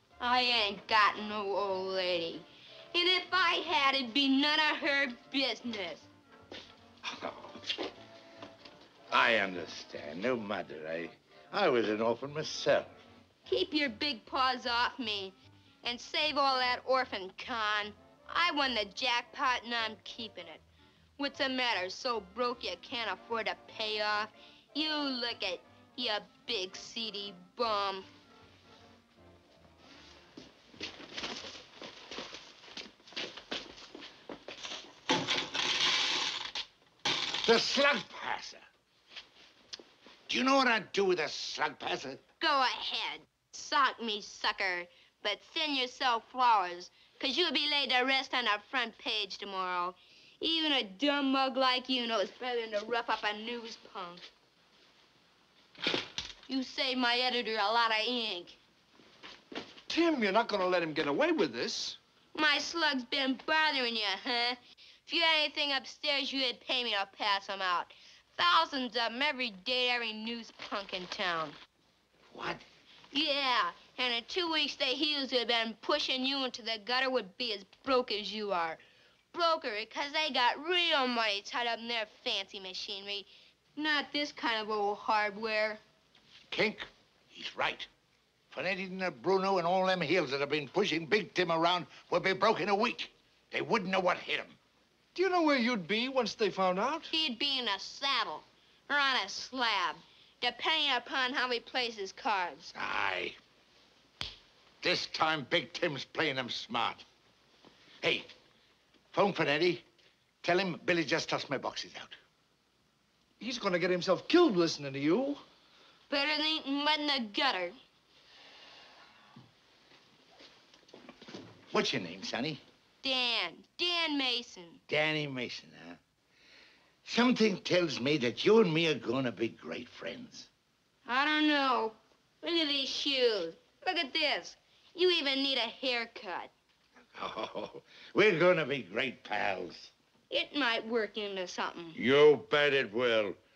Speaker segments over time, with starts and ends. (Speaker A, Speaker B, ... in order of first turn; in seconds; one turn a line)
Speaker A: 0.2-6.1
Speaker B: 7.0-7.6
Speaker B: 9.1-12.9
Speaker A: 13.5-20.6
Speaker A: 21.2-28.1
Speaker B: 37.4-38.6
Speaker B: 40.3-42.2
Speaker A: 42.4-54.2
Speaker A: 56.5-58.6
Speaker C: 59.9-62.0
Speaker A: 62.3-71.5
Speaker B: 72.3-72.6
Speaker A: 73.1-78.8
Speaker A: 79.3-85.8
Speaker B: 86.5-87.9
Speaker B: 88.5-94.6
Speaker C: 95.1-97.1
Speaker A: 97.1-102.7
Speaker B: 102.7-103.3
Speaker B: 104.8-107.0
Speaker B: 108.0-108.3
Speaker B: 109.1-109.8
Speaker B: 110.4-112.2
Speaker C: 113.4-115.4
Speaker A: 116.1-117.8
Speaker B: 121.7-122.6
Speaker A: 123.0-124.8
Speaker B: 124.9-126.0
Speaker B: 127.0-130.5
Speaker A: 131.1-136.5
Speaker B: 137.1-139.9
Speaker A: 140.3-142.0
Speaker B: 141.9-143.4